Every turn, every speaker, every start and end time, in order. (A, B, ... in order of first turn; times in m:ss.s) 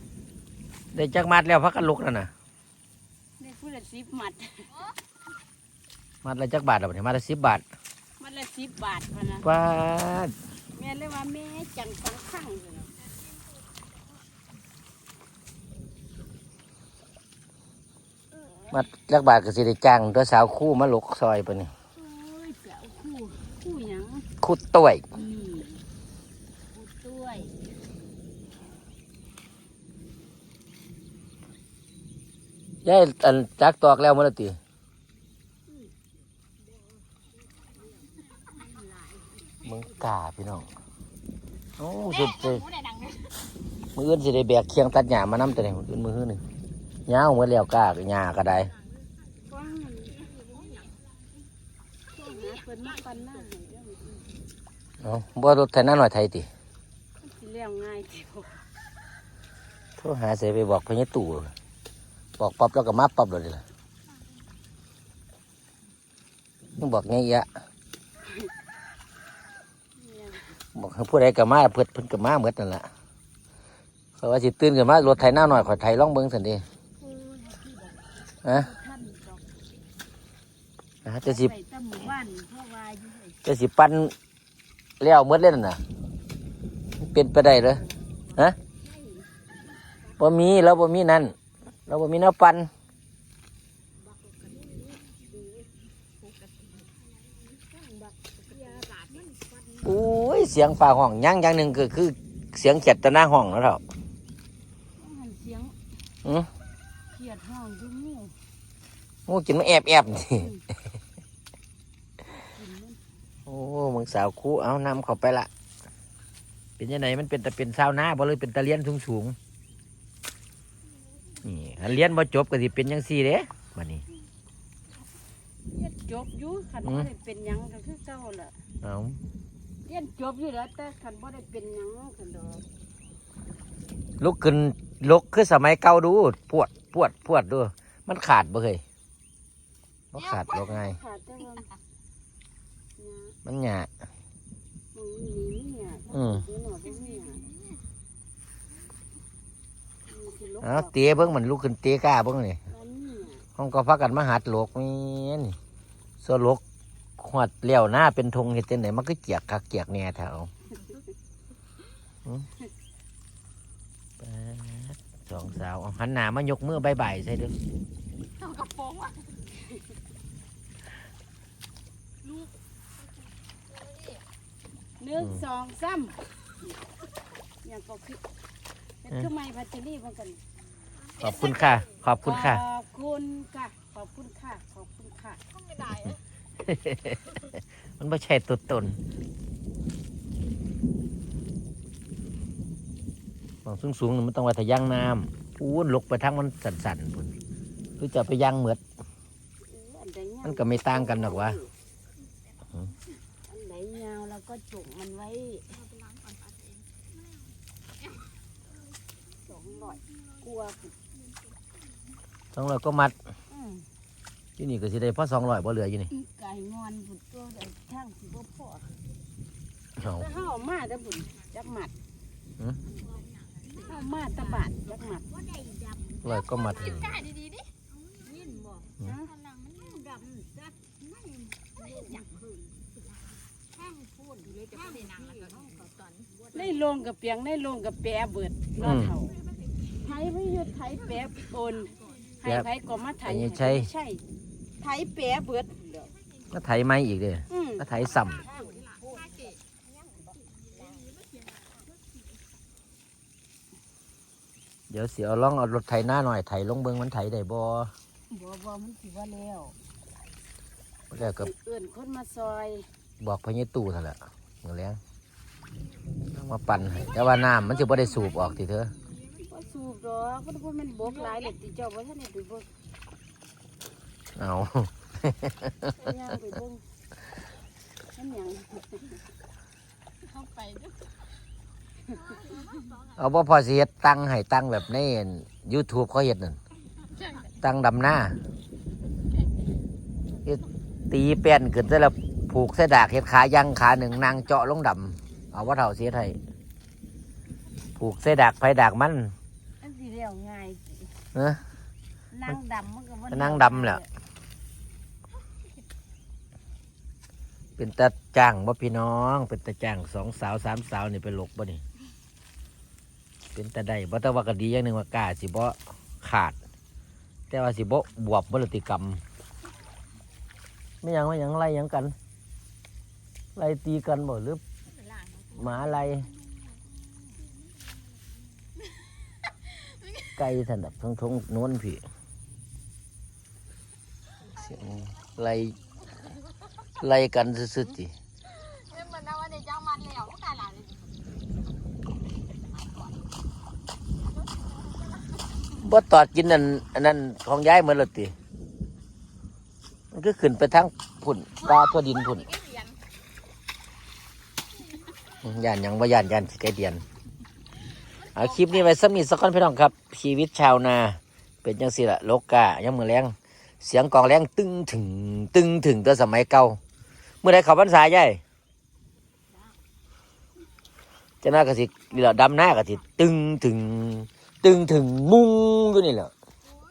0:00.9-0:02.3 A
0:03.4-0:04.8 B
0:06.2-0:07.6 A
0:08.2-0:09.5 B
0:09.4-0:10.3 A
0:10.7-0:13.0 B
0:18.3-0:18.7 B
0:18.7-0:21.7 A
0:22.0-0:24.3 B
0:24.4-0:25.0 A
0:25.1-0:25.8 B
0:26.7-0:27.5 B
0:32.8-0:34.6 A
0:39.6-0:40.7 A
0:41.8-0:42.7 A
0:42.7-0:43.3 C
0:44.0-0:46.4 A
0:47.1-0:48.7 A
0:49.5-0:50.4 B
0:52.1-0:54.3 B
0:55.0-0:56.5 A
0:57.2-0:58.6 B
1:00.0-1:01.5 A
1:02.4-1:03.6 A
1:06.8-1:07.5 A
1:10.0-1:10.5 B
1:10.7-1:12.9 A
1:14.2-1:16.6 A
1:17.0-1:19.4 B
1:21.0-1:21.5 A
1:21.2-1:23.4 B
1:23.4-1:24.1 A
1:25.0-1:25.8 A
1:27.0-1:27.8 A
1:28.8-1:29.2 B
1:30.2-1:31.3 A
1:31.9-1:32.7 A
1:34.7-1:35.0 C
1:38.5-1:39.2 B
1:39.8-1:43.8 A
1:45.0-1:45.7 B
1:47.1-1:48.3 B
1:49.3-1:50.5 A
1:50.4-1:50.6 B
1:52.4-1:53.0 B
1:53.4-1:55.5 A
1:56.8-1:59.4 A
2:01.4-2:04.0 A
2:05.7-2:08.6 B
2:08.8-2:09.2 A
2:09.8-2:12.6 B
2:14.2-2:18.8 A
2:20.1-2:21.0 A
2:20.4-2:21.7 B
2:23.0-2:23.4 B
2:23.4-2:23.9 A
2:24.9-2:27.6 B
2:26.1-2:26.4 A
2:30.1-2:31.0 B
2:30.6-2:32.6 A
2:32.7-2:33.4 B
2:33.6-2:35.6 A
2:36.2-2:36.6 A
2:37.2-2:40.5 A
2:44.2-2:47.5 A
2:48.4-2:49.2 C
2:55.0-2:56.3 B
2:57.6-2:58.2 B
2:59.0-3:00.4 B
3:01.2-3:02.6 A
3:02.2-3:05.4 B
3:05.6-3:06.0 C
3:06.0-3:09.0 A
3:13.6-3:17.3 A
3:18.0-3:18.8 A
3:19.6-3:21.7 B
3:20.4-3:21.6 A
3:23.5-3:25.9 B
3:25.9-3:26.8 C
3:29.4-3:30.9 B
3:32.5-3:33.1 A
3:33.5-3:33.9 B
3:34.6-3:36.1 A
3:36.1-3:38.9 B
3:40.0-3:40.2 A
3:40.1-3:41.9 B
3:43.2-3:43.7 C
3:43.8-3:45.3 B
3:45.5-3:46.2 C
3:46.2-3:47.2 A
3:47.0-3:47.7 C
3:48.3-3:48.9 C
3:49.0-3:49.3 B
3:49.4-3:50.1 C
3:51.8-3:52.2 B
3:54.2-3:56.5 C
3:55.0-3:55.2 B
3:56.5-4:04.2 B
3:58.8-3:59.2 A
3:59.6-3:59.9 C
4:02.4-4:02.7 A
4:03.2-4:03.9 A
4:04.8-4:06.1 B
4:06.5-4:08.5 A
4:07.5-4:09.4 B
4:08.5-4:09.5 C
4:10.8-4:11.8 C
4:14.9-4:17.9 A
4:18.3-4:19.8 B
4:21.1-4:21.5 A
4:21.4-4:22.9 B
4:23.2-4:25.0 A
4:26.3-4:28.9 A
4:29.4-4:32.7 B
4:34.4-4:36.1 A
4:36.0-4:36.8 B
4:38.1-4:39.2 B
4:40.5-4:40.9 C
4:42.1-4:42.4 B
4:42.4-4:43.0 C
4:43.2-4:46.6 A
4:47.6-4:48.4 A
4:50.4-4:56.4 A
4:58.0-4:59.3 A
4:59.8-5:01.1 B
5:01.3-5:01.6 A
5:02.3-5:04.1 B
5:03.3-5:04.0 A
5:07.8-5:11.8 A
5:13.5-5:16.6 A
5:17.5-5:19.2 A
5:21.0-5:22.1 A
5:23.6-5:24.6 A
5:25.0-5:25.5 C
5:25.5-5:26.3 A
5:30.3-5:32.0 A
5:34.5-5:35.8 A
5:37.0-5:38.1 A
5:38.6-5:41.0 C
5:45.8-5:48.3 A
5:50.1-5:52.6 A
5:52.5-5:52.9 C
5:55.4-5:57.0 A
5:58.2-6:06.8 A
6:07.4-6:08.4 A
6:11.4-6:16.3 A